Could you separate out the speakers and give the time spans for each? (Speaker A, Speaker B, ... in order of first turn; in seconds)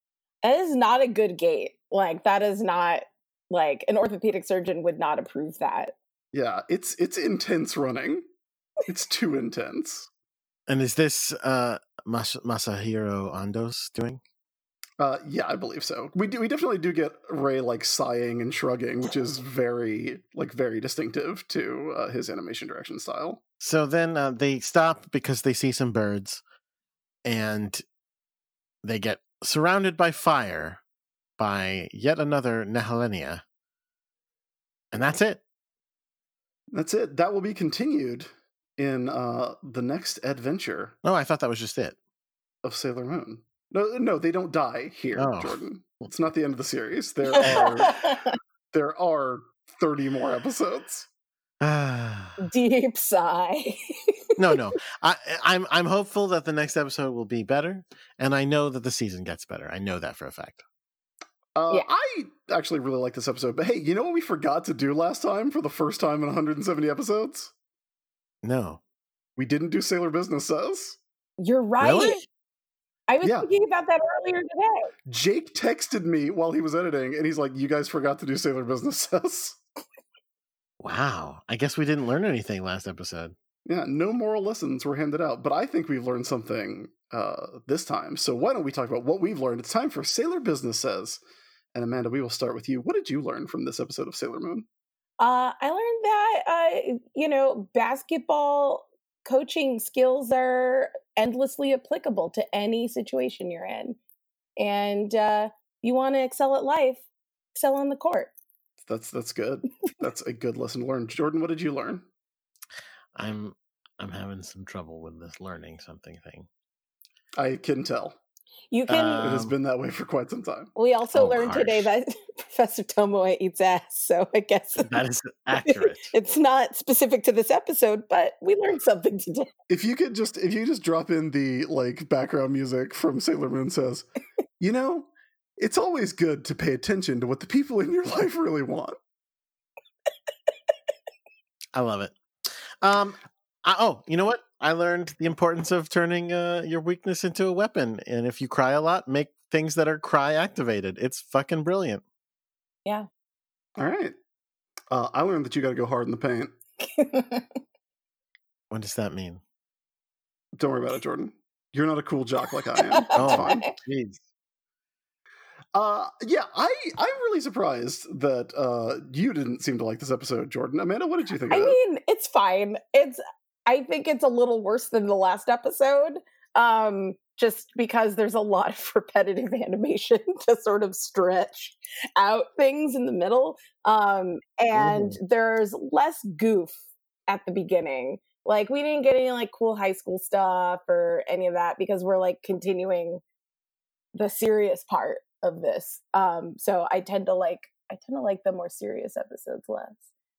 Speaker A: 0.4-5.9, 47.3-48.3, 52.4-53.8, 71.4-72.2, 73.1-74.9, 95.2-104.0, 104.6-108.3, 118.7-119.3, 120.8-125.0, 125.5-129.5, 156.8-157.6, 162.8-163.7, 171.5-193.2, 194.1-200.0
Speaker B: 6.3-8.2, 8.9-10.1, 15.0-23.4, 36.7-40.9, 42.6-48.1, 48.7-51.1, 61.6-67.5, 69.4-71.0, 73.2-73.5, 75.1-79.6, 83.7-91.2, 91.7-94.7, 108.8-112.1, 117.4-118.2, 119.2-120.7, 129.7-134.1, 134.6-139.0, 153.8-154.2, 154.9-156.5, 160.6-163.7, 165.7-171.8
Speaker C: 10.7-14.2, 23.6-26.4, 27.2-27.8, 28.8-30.8, 31.4-33.4, 34.9-35.4, 41.0-42.0, 45.1-45.6, 51.6-52.4, 54.4-60.6, 68.4-68.8, 71.8-72.2, 80.8-83.3, 113.1-116.5, 118.9-119.5, 121.1-121.9, 124.8-126.1, 141.7-142.1, 142.8-152.0, 158.7-159.4, 163.1-164.2, 184.7-185.2